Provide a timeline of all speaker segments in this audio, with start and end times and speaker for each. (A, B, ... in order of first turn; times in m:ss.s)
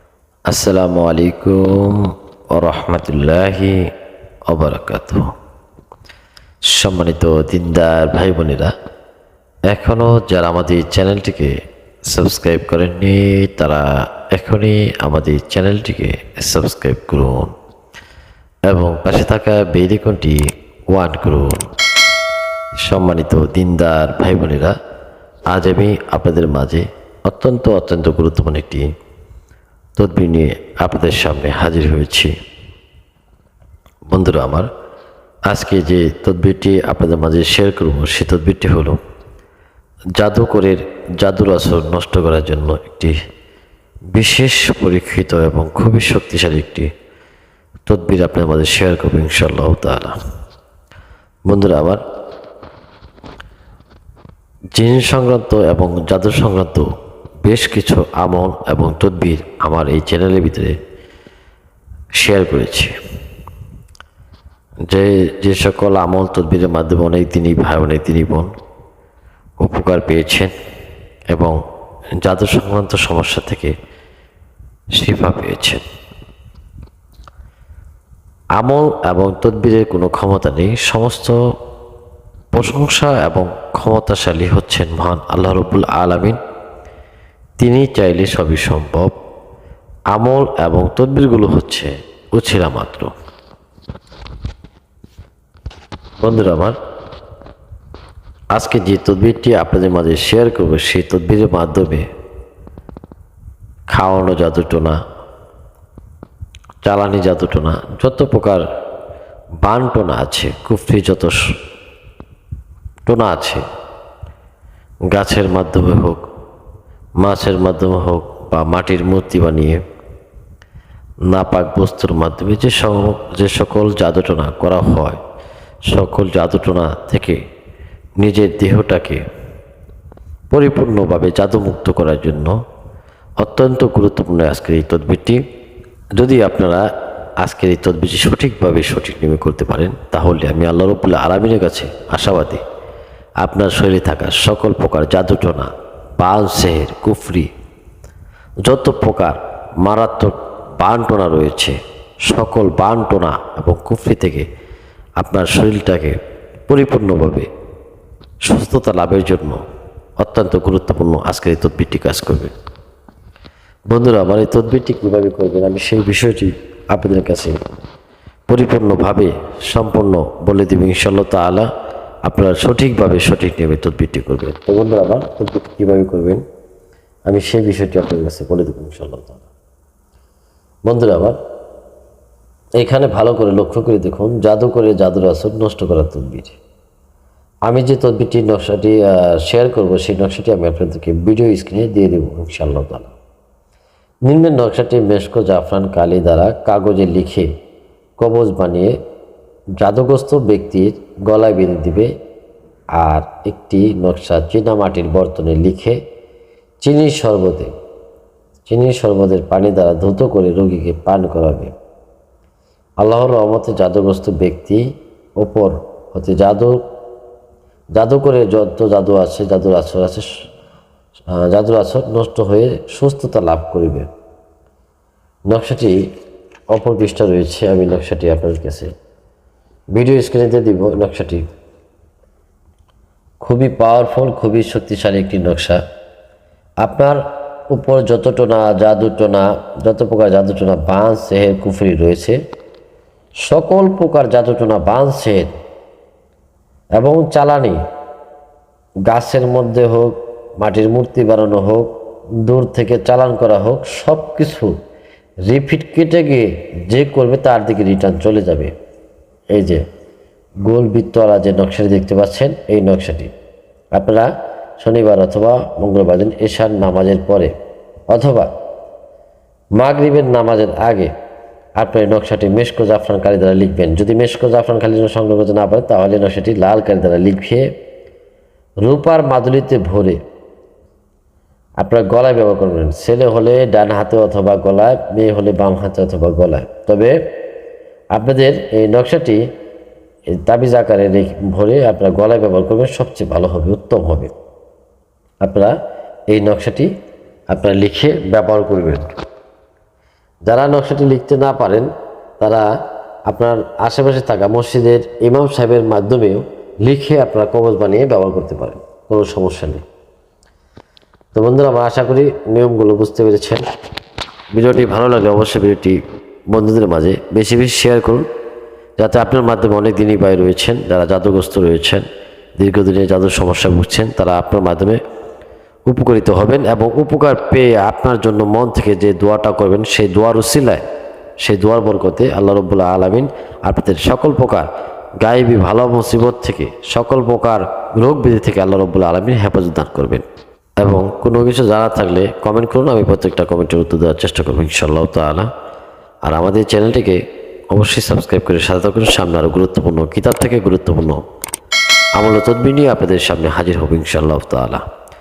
0:00.5-0:03.8 A
0:04.5-0:05.3 A
0:06.7-0:08.7 A
0:09.7-0:11.5 A
0:12.1-0:17.5 A
0:18.7-0:20.4 A
0:20.9-0:21.6 A
0:22.8-0:24.7 A
0:25.5-0:28.9 A
0:30.0-0:32.3 A
0:34.1-0:34.7 A
0:35.5-0:39.0 A
0:40.2-0:43.2 A
0:44.1-0:46.9 A
0:47.9-0:50.1 A
0:51.5-0:52.0 A
0:54.7-0:56.8 A
0:57.4-1:00.8 A
1:02.2-1:02.9 A
1:04.9-1:08.5 A
1:09.6-1:10.5 A
1:11.3-1:11.6 A
1:12.2-1:13.7 A
1:15.0-1:15.8 A
1:18.6-1:21.4 A
1:22.5-1:26.4 A
1:27.6-1:29.1 A
1:30.1-1:33.1 A
1:36.2-1:36.8 A
1:38.5-1:42.0 A
1:43.9-1:45.0 A
1:46.8-1:48.6 A
1:49.6-1:51.4 A
1:53.1-1:53.6 A
1:55.1-1:56.2 A
1:57.2-1:59.8 A
2:01.3-2:05.2 A
2:05.9-2:07.4 A
2:08.2-2:09.2 A
2:10.5-2:12.5 A
2:13.4-2:15.4 A
2:16.2-2:16.8 A
2:17.4-2:22.6 A
2:23.4-2:27.5 A
2:28.6-2:31.8 A
2:32.3-2:34.4 A
2:35.2-2:36.2 A
2:36.7-2:37.5 A
2:38.4-2:39.6 A
2:40.2-2:42.5 A
2:43.9-2:47.6 A
2:48.5-2:51.7 A
2:52.2-2:56.4 A
2:57.3-2:59.5 A
3:00.9-3:01.4 A
3:02.8-3:06.6 A
3:07.7-3:13.1 A
3:14.3-3:17.5 A
3:18.2-3:18.9 A
3:19.8-3:22.1 A
3:23.0-3:26.0 A
3:26.8-3:27.7 A
3:28.7-3:31.7 A
3:33.0-3:34.8 A
3:35.4-3:36.8 A
3:38.0-3:40.2 A
3:41.3-3:44.1 A
3:45.5-3:46.0 A
3:46.7-3:48.9 A
3:49.9-3:51.5 A
3:53.4-3:55.8 A
3:56.8-4:02.4 A
4:03.4-4:05.5 A
4:07.0-4:07.8 A
4:09.1-4:11.9 A
4:12.4-4:14.8 A
4:15.5-4:18.7 A
4:19.5-4:19.8 A
4:20.6-4:23.3 A
4:23.9-4:24.3 A
4:24.8-4:27.5 A
4:28.1-4:28.5 A
4:29.8-4:31.1 A
4:31.8-4:37.7 A
4:38.8-4:40.2 A
4:41.8-4:47.2 A
4:48.1-4:49.4 A
4:50.4-4:54.3 A
4:55.4-4:55.7 A
4:56.3-4:56.9 A
4:57.5-4:59.1 A
5:00.4-5:01.9 A
5:02.4-5:02.6 A
5:03.3-5:09.8 A
5:11.3-5:13.6 A
5:14.5-5:16.0 A
5:16.5-5:18.2 A
5:19.0-5:22.0 A
5:22.6-5:25.0 A
5:25.9-5:30.8 A
5:31.4-5:34.7 A
5:35.2-5:40.2 A
5:40.8-5:45.5 A
5:46.2-5:51.2 A
5:52.2-5:54.8 A